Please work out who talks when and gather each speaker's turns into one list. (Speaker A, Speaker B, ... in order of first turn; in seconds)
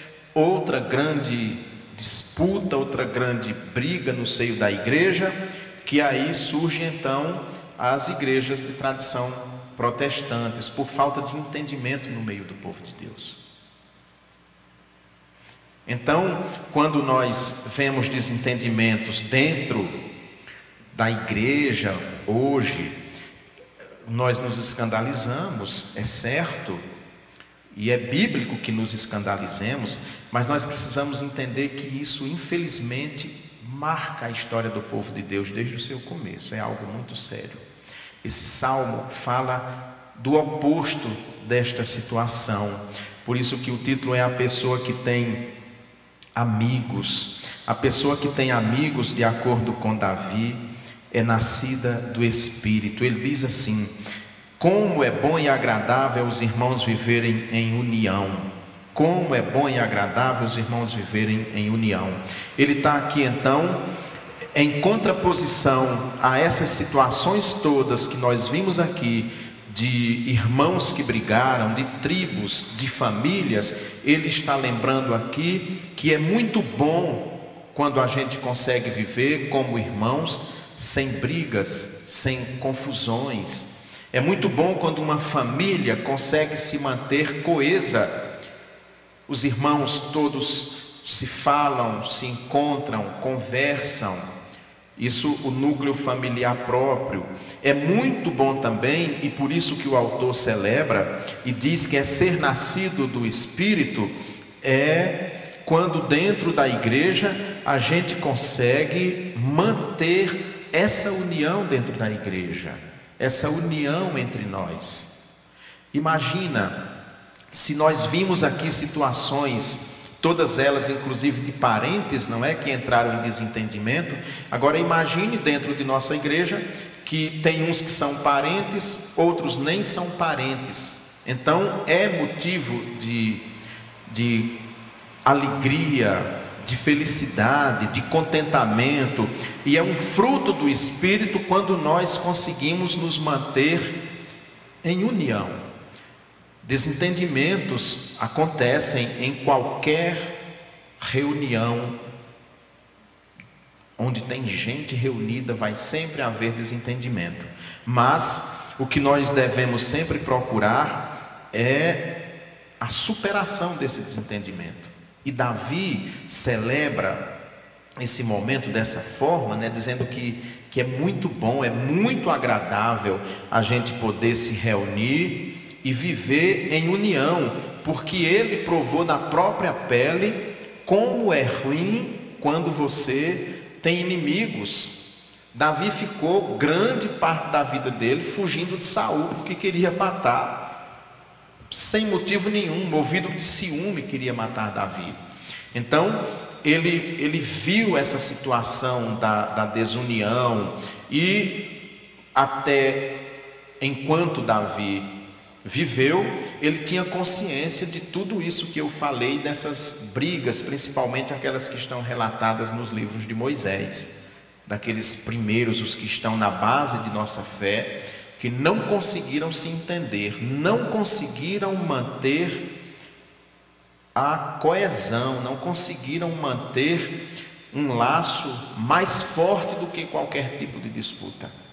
Speaker A: 0.3-13.4, 15.8-20.0, 20.9-23.0, 24.0-26.8, 27.7-37.6, 38.2-45.4, 46.4-53.9, 54.6-63.8, 64.5-88.1, 89.3-94.3, 95.0-115.1, 115.9-116.8, 117.5-133.4, 134.1-134.5, 135.2-143.9, 144.8-145.6, 146.6-150.3, 151.0-152.0, 154.0-162.0, 162.8-167.2, 168.0-184.9, 185.5-190.6, 191.7-195.2, 195.7-201.6, 202.3-203.0, 203.8-205.1, 205.6-214.1, 214.7-222.6, 224.1-227.1, 227.7-231.5